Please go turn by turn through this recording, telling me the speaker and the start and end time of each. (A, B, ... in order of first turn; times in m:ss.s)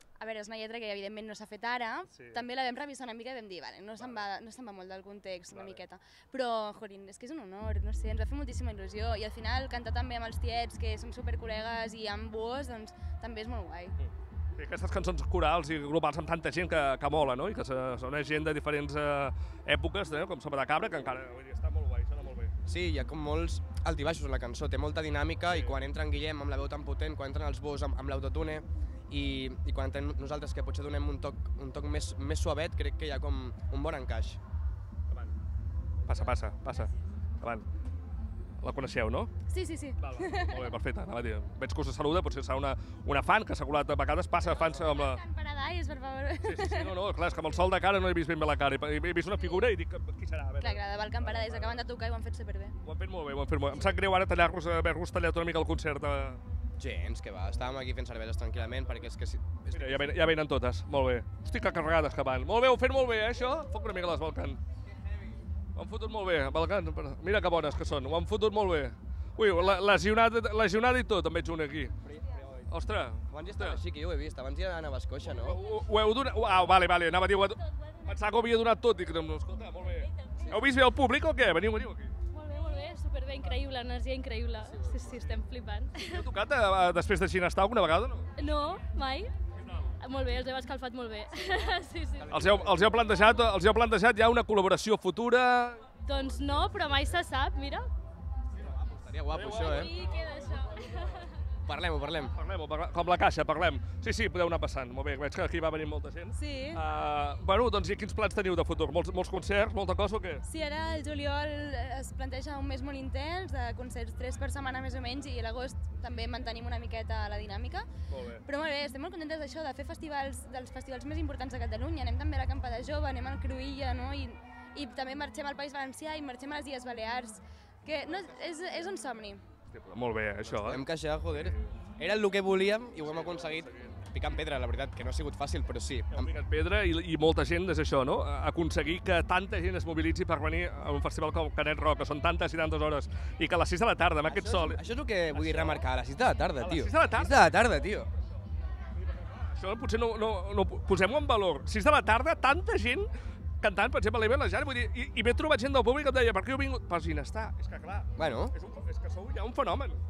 0:00.2-0:14.0 A
0:02.1-0:02.4 B
0:04.0-0:04.2 B
0:05.5-0:05.8 B
0:14.0-0:22.5 B
0:22.7-0:34.4 C
0:25.5-0:25.8 B
0:36.0-0:37.7 B
0:38.6-0:39.3 B
0:39.5-0:40.7 A
0:40.0-0:45.2 B
0:44.4-0:47.0 A
0:46.4-0:51.8 B
0:50.6-0:52.8 A
0:52.8-0:56.4 B
0:56.8-1:00.1 C
0:59.7-1:04.6 B
1:05.8-1:11.9 B
1:12.1-1:12.4 C
1:12.6-1:13.8 B
1:13.3-1:15.6 C
1:15.2-1:22.1 B
1:22.3-1:26.3 D
1:26.0-1:28.3 B
1:28.4-1:29.3 D
1:29.6-1:29.9 B
1:30.0-1:32.3 D
1:32.2-1:33.2 C
1:32.3-1:36.6 B
1:36.0-1:37.9 D
1:38.6-1:40.0 C
1:39.3-1:40.6 B
1:39.6-1:41.2 D
1:41.6-1:42.3 C
1:42.2-1:50.4 B
1:46.4-1:46.8 A
1:50.4-1:57.9 A
1:58.1-1:58.4 B
1:58.4-2:09.4 A
2:09.7-2:11.8 B
2:10.4-2:16.3 C
2:13.0-2:14.0 B
2:16.1-2:24.8 B
2:24.3-2:28.1 C
2:25.3-2:25.8 B
2:26.6-2:27.4 B
2:29.2-2:33.1 B
2:33.6-2:40.0 B
2:38.2-2:38.5 C